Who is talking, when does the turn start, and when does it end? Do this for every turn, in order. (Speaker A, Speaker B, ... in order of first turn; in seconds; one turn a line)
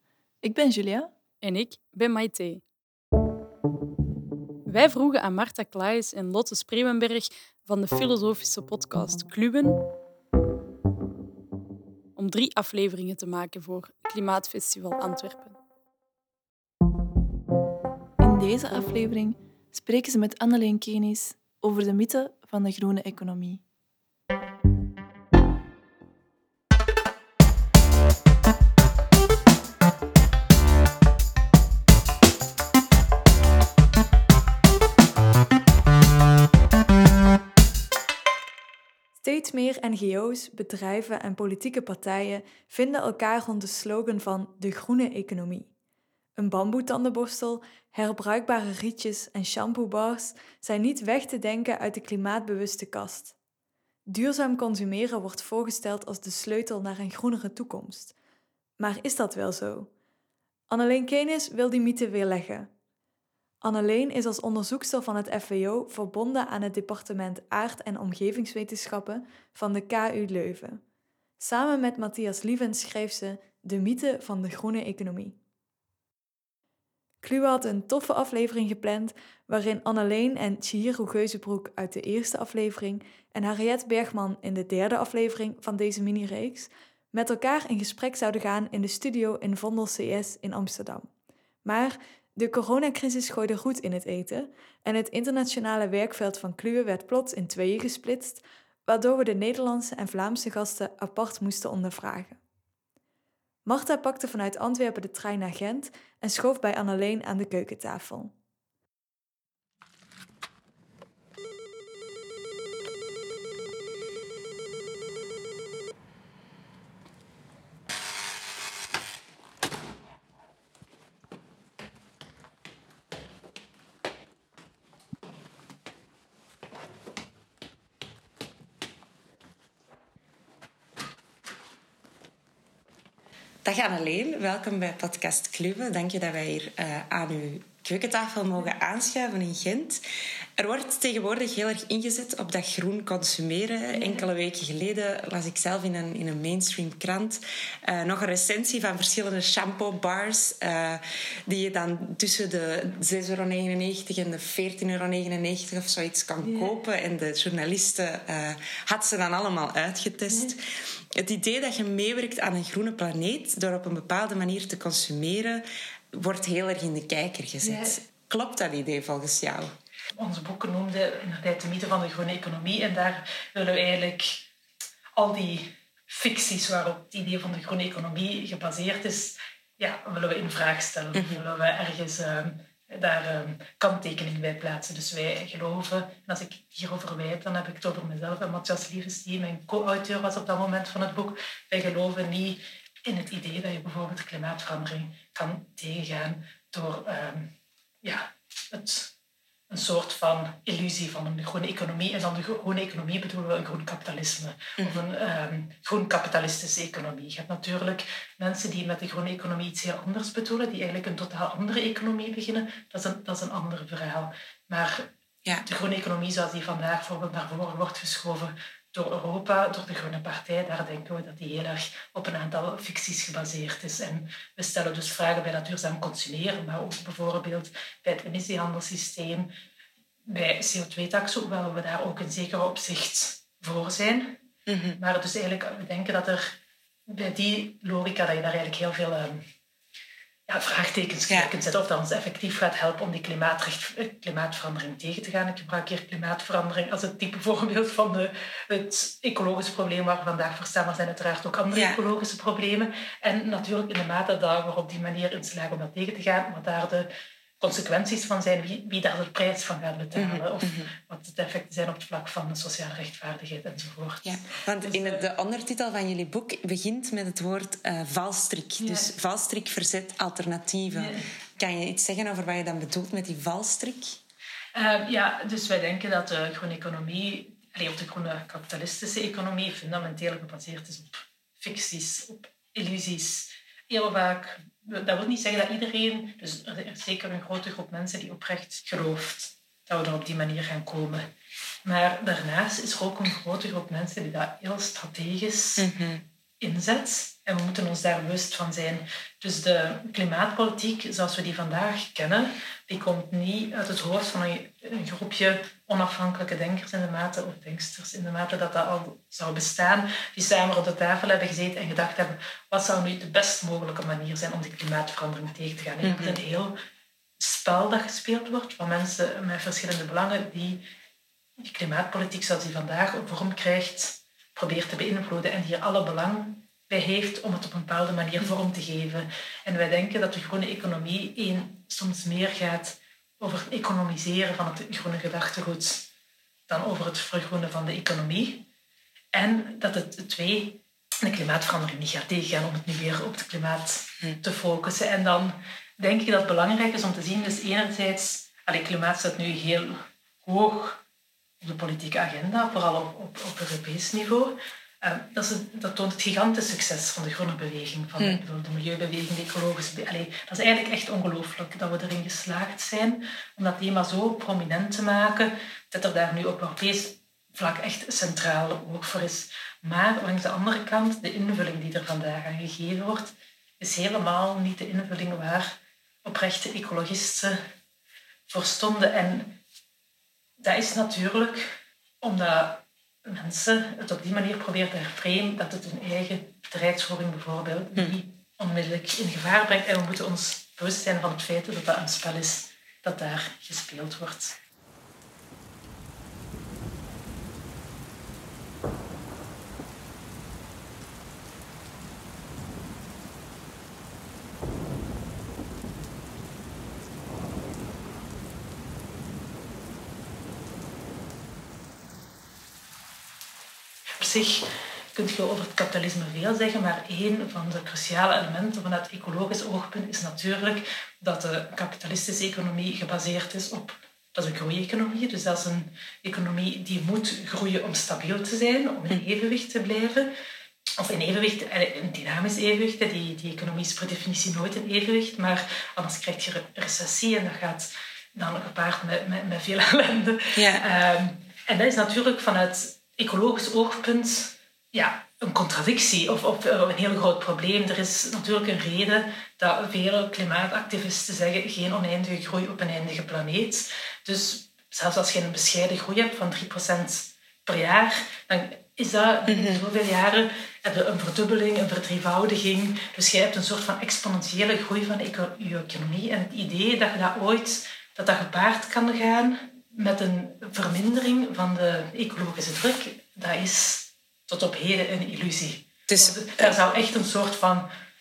Speaker A: 0.4-1.1
Speaker B: 1.4-2.6
Speaker B: 4.7-9.8
Speaker B: 12.2-15.6
Speaker A: 18.2-23.6
Speaker C: 39.2-45.7
Speaker C: 46.4-53.3
Speaker C: 54.1-58.1
Speaker C: 58.8-59.9
Speaker C: 60.7-62.7
Speaker C: 63.6-70.8
Speaker C: 71.4-75.4
Speaker C: 77.2-91.1
Speaker C: 91.6-102.4
Speaker C: 103.7-108.3
Speaker D: 133.6-140.0
Speaker D: 140.6-169.7
Speaker E: 156.4-156.7
Speaker E: 167.6-168.0
Speaker E: 170.2-174.5
Speaker E: 175.2-197.5
Speaker D: 181.1-181.4
Speaker E: 198.0-199.1
Speaker E: 199.7-215.1
Speaker D: 204.8-205.1
Speaker E: 215.7-229.5
Speaker E: 230.3-234.4
Speaker D: 234.7-235.0
Speaker E: 235.0-236.6
Speaker E: 237.1-239.4
Speaker E: 240.5-257.1
Speaker D: 251.7-252.0
Speaker E: 257.6-265.2
Speaker D: 260.1-260.9
Speaker D: 264.2-274.2
Speaker E: 268.8-269.1
Speaker E: 270.9-271.3
Speaker E: 274.7-291.3
Speaker E: 291.8-295.9
Speaker D: 295.8-296.2
Speaker E: 296.6-316.7
Speaker D: 316.0-316.4
Speaker E: 317.4-320.9
Speaker E: 321.6-336.1
Speaker E: 336.7-338.6
Speaker E: 339.3-351.0
Speaker E: 351.6-375.7
Speaker E: 376.2-377.6
Speaker E: 378.5-379.6
Speaker E: 380.6-394.6
Speaker E: 414.1-430.3
Speaker E: 431.0-477.9
Speaker D: 440.6-440.8
Speaker D: 459.5-459.8
Speaker D: 476.1-476.8